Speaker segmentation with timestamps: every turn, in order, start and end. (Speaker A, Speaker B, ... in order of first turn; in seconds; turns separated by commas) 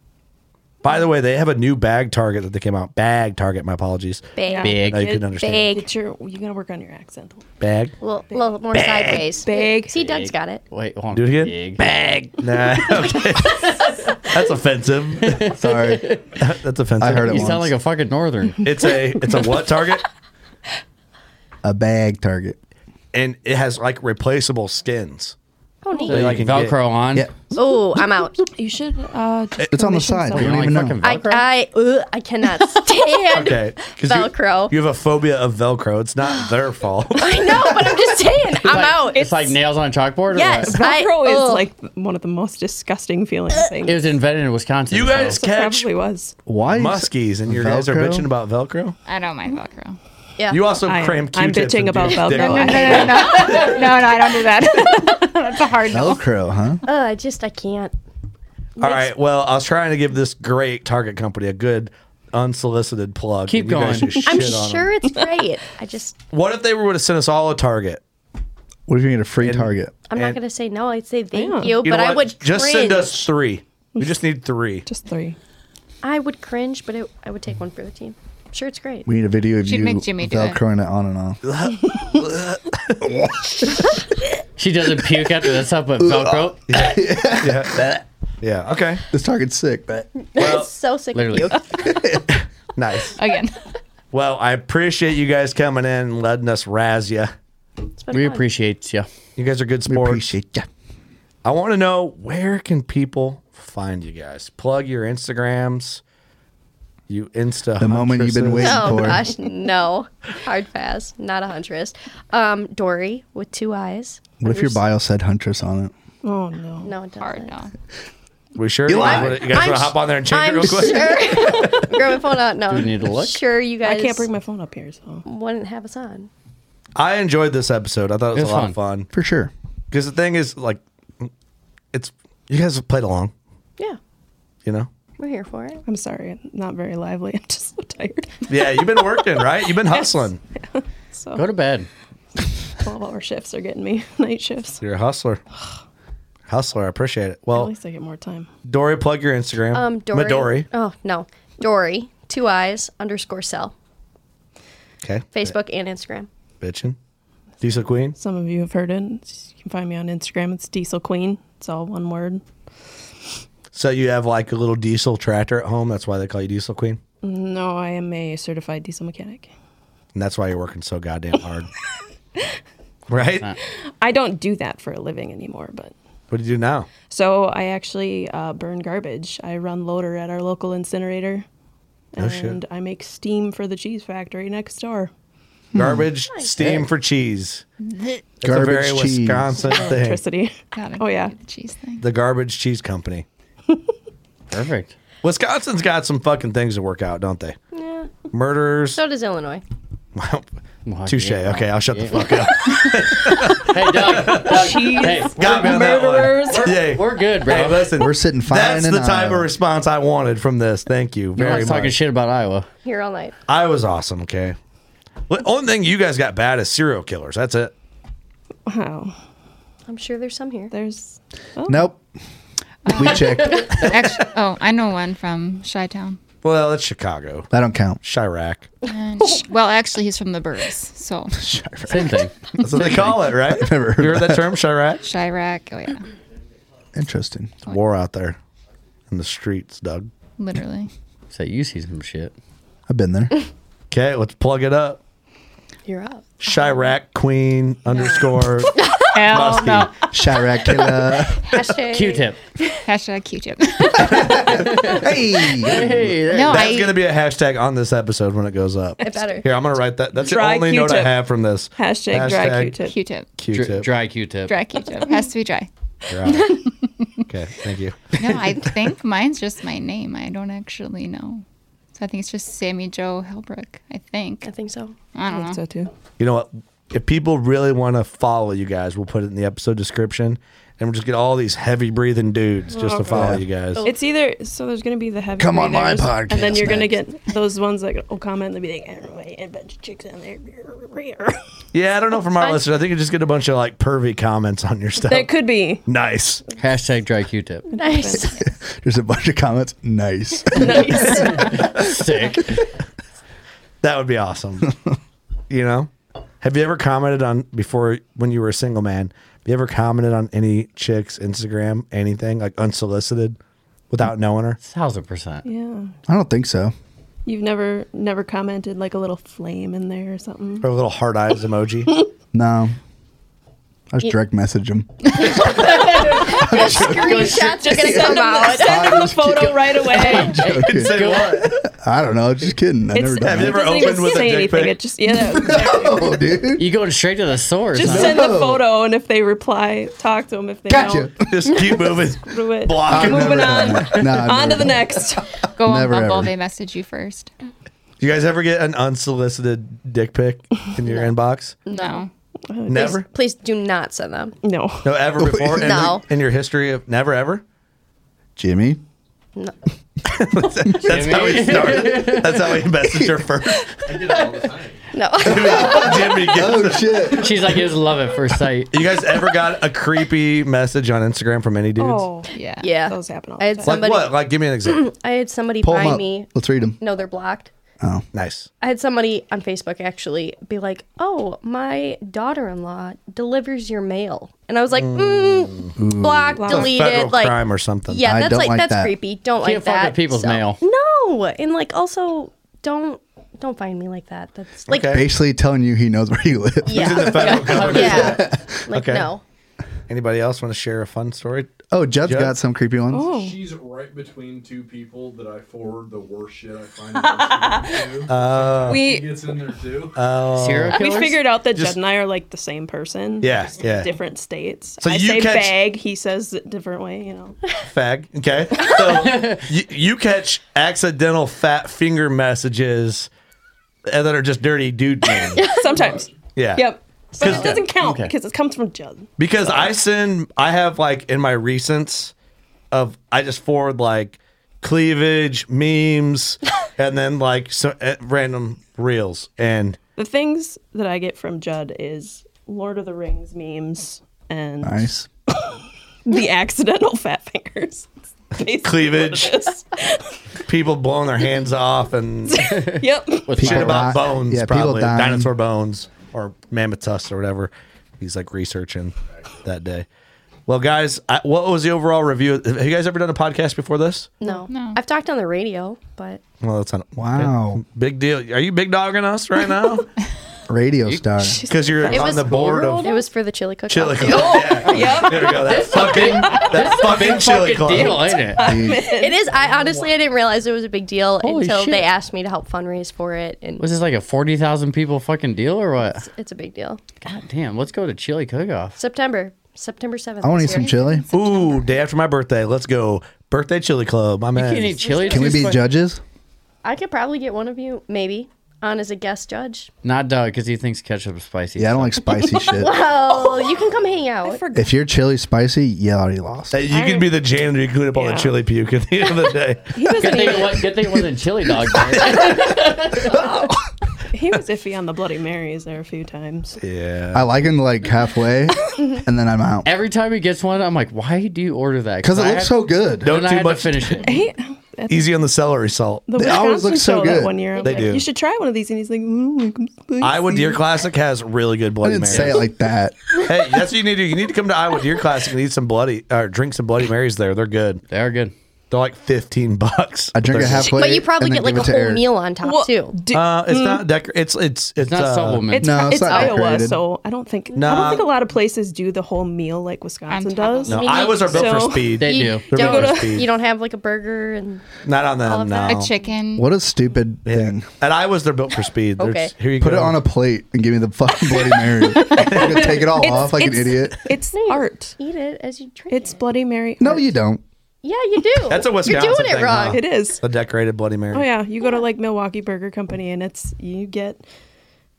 Speaker A: 0.8-5.7, Speaker B: 4.4-5.9, Speaker C: 4.5-7.5, Speaker D: 4.6-5.1, Speaker A: 7.6-7.9, Speaker B: 8.0-10.6, Speaker A: 8.7-9.2, Speaker C: 9.4-10.0, Speaker D: 10.0-11.9, Speaker A: 11.1-15.4, Speaker D: 13.5-14.0, Speaker D: 15.3-16.3, Speaker E: 15.6-16.1, Speaker A: 16.4-17.6, Speaker E: 17.0-17.7, Speaker D: 17.1-18.7, Speaker A: 18.6-20.1, Speaker E: 21.6-22.6, Speaker A: 23.1-25.4, Speaker B: 25.8-26.4, Speaker D: 26.1-27.4, Speaker A: 26.1-26.8, Speaker E: 27.1-27.6, Speaker B: 27.5-28.5, Speaker C: 28.5-30.8, Speaker E: 29.7-31.0, Speaker D: 30.3-31.5, Speaker B: 31.0-34.8, Speaker A: 33.3-37.6, Speaker B: 37.2-39.5, Speaker D: 38.6-40.8, Speaker C: 39.1-39.5, Speaker B: 40.3-41.7, Speaker C: 40.6-44.1, Speaker D: 43.9-45.4, Speaker A: 44.9-45.9, Speaker C: 45.3-46.4, Speaker E: 46.5-48.3, Speaker A: 46.7-49.0, Speaker F: 49.1-50.0, Speaker A: 50.5-53.3, Speaker C: 50.9-53.9, Speaker F: 52.3-56.2, Speaker C: 54.8-55.3, Speaker E: 55.9-56.8, Speaker B: 56.9-57.9, Speaker B: 58.8-59.1, Speaker A: 58.8-64.9, Speaker D: 63.5-64.3, Speaker B: 64.3-66.2, Speaker A: 66.3-68.0, Speaker E: 68.9-69.9, Speaker A: 69.4-70.4, Speaker B: 70.1-73.3, Speaker C: 71.3-71.8, Speaker A: 71.8-74.9, Speaker C: 74.9-75.4, Speaker B: 76.0-79.1, Speaker E: 79.1-81.4, Speaker F: 79.6-80.6, Speaker A: 81.4-83.1, Speaker D: 84.6-86.6, Speaker E: 86.0-88.0, Speaker A: 86.7-87.8, Speaker A: 88.4-89.0, Speaker E: 89.1-90.1, Speaker B: 90.2-91.9, Speaker A: 90.4-90.7, Speaker D: 91.1-91.6, Speaker E: 91.8-92.3, Speaker A: 92.8-93.2, Speaker F: 93.2-93.6, Speaker A: 94.1-97.3, Speaker B: 98.0-98.5, Speaker D: 98.1-99.1, Speaker A: 99.4-100.3, Speaker E: 99.9-100.7, Speaker A: 101.5-106.0, Speaker A: 107.1-109.1, Speaker E: 107.8-109.3, Speaker B: 108.6-114.6, Speaker E: 114.4-115.9, Speaker C: 116.2-116.9, Speaker B: 116.8-117.5, Speaker F: 117.2-117.7, Speaker A: 118.6-121.4, Speaker E: 118.9-119.4, Speaker B: 118.9-124.3, Speaker D: 122.7-123.4, Speaker C: 123.8-125.3, Speaker B: 125.3-126.3, Speaker A: 127.0-129.1, Speaker D: 128.3-128.8, Speaker E: 129.1-129.5, Speaker A: 129.9-131.3, Speaker A: 131.9-133.3, Speaker B: 135.2-135.8, Speaker C: 135.9-141.5, Speaker A: 138.5-140.4, Speaker D: 141.3-141.9, Speaker C: 142.8-144.8, Speaker A: 144.8-145.4, Speaker A: 146.5-147.7, Speaker C: 147.5-148.5, Speaker A: 148.7-150.7, Speaker B: 149.7-153.7, Speaker A: 155.0-155.6, Speaker B: 155.3-156.3, Speaker A: 156.6-157.0, Speaker A: 157.6-158.2, Speaker C: 158.2-162.4, Speaker A: 163.7-167.0, Speaker C: 167.2-169.5, Speaker A: 170.2-171.7, Speaker A: 173.1-173.5, Speaker C: 174.0-175.9, Speaker A: 176.3-176.9, Speaker C: 177.1-181.5, Speaker C: 182.2-185.1, Speaker A: 182.2-182.6, Speaker E: 185.7-186.1, Speaker A: 185.8-187.6, Speaker B: 186.3-186.7, Speaker F: 187.8-188.2, Speaker A: 188.4-190.2, Speaker E: 188.4-189.7, Speaker C: 189.6-191.3, Speaker F: 190.7-192.0, Speaker A: 192.0-193.3, Speaker D: 194.5-194.9, Speaker A: 195.2-197.6, Speaker B: 197.7-198.1, Speaker A: 198.3-199.0, Speaker B: 198.9-199.6, Speaker A: 200.2-200.5, Speaker D: 200.9-205.8, Speaker A: 201.1-212.0, Speaker C: 204.3-206.8, Speaker D: 206.6-208.0, Speaker E: 207.9-209.5, Speaker D: 211.4-212.7, Speaker B: 212.8-213.3, Speaker A: 213.5-214.6, Speaker A: 215.3-217.7, Speaker C: 218.7-219.2, Speaker B: 219.9-220.7, Speaker C: 220.7-221.9, Speaker E: 221.7-222.0, Speaker F: 222.9-226.2, Speaker E: 222.9-224.0, Speaker D: 223.2-223.9, Speaker A: 226.4-227.5, Speaker E: 227.5-228.0, Speaker A: 228.0-228.7, Speaker F: 228.8-231.4, Speaker E: 231.4-234.4, Speaker D: 231.9-232.3, Speaker A: 232.6-235.0, Speaker F: 235.0-236.1, Speaker E: 236.9-237.5, Speaker A: 237.7-238.4, Speaker A: 239.1-240.1, Speaker F: 240.4-240.9, Speaker D: 241.3-242.3, Speaker E: 242.9-243.4, Speaker A: 243.9-245.0, Speaker B: 245.9-246.3, Speaker A: 246.4-249.9, Speaker B: 248.8-249.5, Speaker F: 249.0-250.1, Speaker E: 250.1-251.5, Speaker B: 251.4-252.8, Speaker D: 251.9-252.4, Speaker F: 252.8-254.5, Speaker E: 254.1-256.1, Speaker D: 254.5-256.8, Speaker F: 256.3-257.0, Speaker A: 256.5-262.8, Speaker B: 259.0-259.5, Speaker C: 260.1-261.2, Speaker C: 261.8-263.0, Speaker F: 262.9-263.3, Speaker A: 263.4-263.9, Speaker D: 263.5-264.6, Speaker F: 264.5-265.7, Speaker A: 266.1-266.6, Speaker F: 266.3-267.1, Speaker A: 267.3-268.1, Speaker F: 268.2-271.4, Speaker F: 271.9-274.5, Speaker B: 274.4-274.9, Speaker F: 275.1-275.6, Speaker C: 275.3-275.9, Speaker A: 276.2-283.8, Speaker C: 282.7-291.4, Speaker E: 283.1-283.4, Speaker B: 283.8-284.0, Speaker E: 285.4-287.0, Speaker A: 291.7-296.4, Speaker B: 292.4-292.6, Speaker C: 295.1-295.8, Speaker D: 296.6-297.7, Speaker C: 297.7-298.4, Speaker B: 297.8-298.4, Speaker E: 298.4-301.9, Speaker C: 300.5-301.7, Speaker D: 301.2-302.6, Speaker A: 303.8-304.7, Speaker A: 305.5-313.4, Speaker A: 313.9-314.6, Speaker D: 314.6-315.4, Speaker C: 315.4-315.9, Speaker E: 316.1-316.7, Speaker C: 317.3-320.7, Speaker A: 320.6-321.9, Speaker E: 322.3-322.8, Speaker E: 323.9-333.9, Speaker B: 325.2-329.1, Speaker D: 325.7-327.5, Speaker C: 326.9-330.4, Speaker D: 330.0-331.4, Speaker A: 330.4-331.6, Speaker C: 332.9-336.4, Speaker A: 333.2-334.8, Speaker E: 335.1-336.6, Speaker D: 336.6-338.3, Speaker C: 337.7-341.1, Speaker E: 337.8-338.7, Speaker E: 340.7-341.4, Speaker A: 341.2-343.7, Speaker C: 342.2-345.4, Speaker E: 342.8-346.3, Speaker D: 344.0-344.3, Speaker F: 345.6-347.3, Speaker A: 348.0-351.6, Speaker B: 350.8-351.1, Speaker B: 351.7-352.0, Speaker F: 351.7-352.1, Speaker C: 352.5-353.0, Speaker A: 352.7-353.1, Speaker B: 352.8-354.4, Speaker C: 354.4-355.0, Speaker A: 354.8-357.4, Speaker E: 355.2-356.0, Speaker B: 355.6-356.0, Speaker E: 358.4-358.8, Speaker A: 360.1-363.7, Speaker D: 360.8-362.6, Speaker G: 363.9-364.9, Speaker B: 364.9-366.3, Speaker A: 365.2-367.1, Speaker E: 365.2-367.6, Speaker D: 367.1-368.8, Speaker A: 368.7-372.1, Speaker C: 371.8-373.9, Speaker F: 372.3-372.7, Speaker B: 372.6-377.5, Speaker A: 373.6-374.9, Speaker E: 375.6-376.8, Speaker A: 378.1-378.5, Speaker B: 378.6-395.0, Speaker A: 384.8-385.6, Speaker E: 385.8-386.7, Speaker C: 386.4-386.7, Speaker A: 386.5-388.1, Speaker E: 388.0-388.9, Speaker D: 389.4-390.6, Speaker A: 394.7-395.1, Speaker E: 394.8-398.6, Speaker B: 396.6-399.2, Speaker A: 396.7-399.1, Speaker D: 397.4-398.2, Speaker A: 399.9-402.4, Speaker E: 401.7-403.1, Speaker C: 402.9-403.4, Speaker G: 403.0-410.0, Speaker C: 407.0-407.9, Speaker A: 408.1-408.9, Speaker C: 408.7-409.1, Speaker A: 409.9-410.8, Speaker D: 410.3-411.2, Speaker C: 410.7-417.4, Speaker A: 413.2-413.9, Speaker A: 414.8-415.5, Speaker A: 417.6-423.1, Speaker D: 418.9-419.5, Speaker A: 423.9-425.4, Speaker C: 425.1-429.1, Speaker B: 425.4-425.7, Speaker G: 425.7-426.1, Speaker A: 426.4-427.6, Speaker B: 427.2-427.6, Speaker D: 427.7-428.1, Speaker A: 429.2-432.1, Speaker A: 432.7-439.8, Speaker C: 440.0-450.1, Speaker E: 444.6-445.1, Speaker A: 448.6-449.5, Speaker A: 450.4-452.6, Speaker C: 452.3-453.5, Speaker D: 452.5-453.9, Speaker E: 453.4-455.3, Speaker A: 453.4-459.9, Speaker A: 460.5-464.1, Speaker B: 464.2-466.2, Speaker F: 464.5-464.8, Speaker A: 466.4-469.9, Speaker E: 467.0-467.6, Speaker E: 470.5-471.4, Speaker D: 470.9-471.2, Speaker C: 471.2-472.2, Speaker A: 471.5-472.9, Speaker B: 471.8-474.8, Speaker D: 472.0-473.0, Speaker A: 473.7-478.2, Speaker C: 474.0-475.7, Speaker D: 475.3-478.6, Speaker C: 477.7-479.2, Speaker E: 478.4-478.8, Speaker B: 478.9-483.6, Speaker G: 479.2-480.0, Speaker D: 481.2-481.9, Speaker D: 483.6-486.1, Speaker B: 486.1-486.8, Speaker D: 487.0-488.8, Speaker B: 488.8-491.6, Speaker E: 490.2-491.1, Speaker A: 491.1-494.9, Speaker D: 494.4-495.7, Speaker C: 494.8-495.5, Speaker E: 495.1-496.0, Speaker B: 496.6-499.7, Speaker D: 499.8-502.1, Speaker E: 501.6-502.8, Speaker C: 502.3-503.7, Speaker B: 502.5-504.4, Speaker C: 504.2-504.8, Speaker E: 504.5-506.6, Speaker A: 506.5-509.7, Speaker C: 506.7-507.3, Speaker C: 507.9-508.4, Speaker C: 509.7-510.7, Speaker D: 509.9-513.2, Speaker E: 513.1-513.4, Speaker C: 513.1-513.5, Speaker C: 514.1-516.6, Speaker A: 516.6-517.3, Speaker E: 517.1-519.7, Speaker B: 518.8-519.0, Speaker D: 519.6-524.2, Speaker E: 522.0-523.2, Speaker A: 523.0-524.2, Speaker C: 524.1-525.1, Speaker A: 524.9-526.1, Speaker C: 526.1-530.6, Speaker E: 526.1-527.5, Speaker B: 527.6-528.0, Speaker A: 527.6-528.0, Speaker A: 530.0-532.4, Speaker E: 531.8-533.0, Speaker A: 533.3-537.8, Speaker D: 537.9-538.3, Speaker A: 538.7-540.9, Speaker E: 540.1-542.0, Speaker B: 540.5-543.0, Speaker C: 542.4-543.8, Speaker A: 543.1-545.5, Speaker D: 544.8-546.0, Speaker C: 545.5-553.2, Speaker E: 545.6-546.8, Speaker B: 546.0-546.6, Speaker A: 547.5-548.1, Speaker B: 547.7-548.0, Speaker F: 550.1-550.8, Speaker B: 550.7-551.7, Speaker A: 550.7-553.3, Speaker D: 552.0-552.5, Speaker B: 552.5-556.1, Speaker A: 554.8-555.9, Speaker F: 555.7-556.5, Speaker E: 556.4-557.7, Speaker A: 557.2-560.0, Speaker B: 559.0-559.3, Speaker E: 559.6-564.1, Speaker C: 561.8-565.0, Speaker A: 562.1-562.8, Speaker B: 564.3-566.2, Speaker C: 565.9-567.1, Speaker E: 566.8-567.4, Speaker B: 567.8-569.9, Speaker A: 568.5-571.3, Speaker C: 568.9-570.2, Speaker C: 571.1-574.2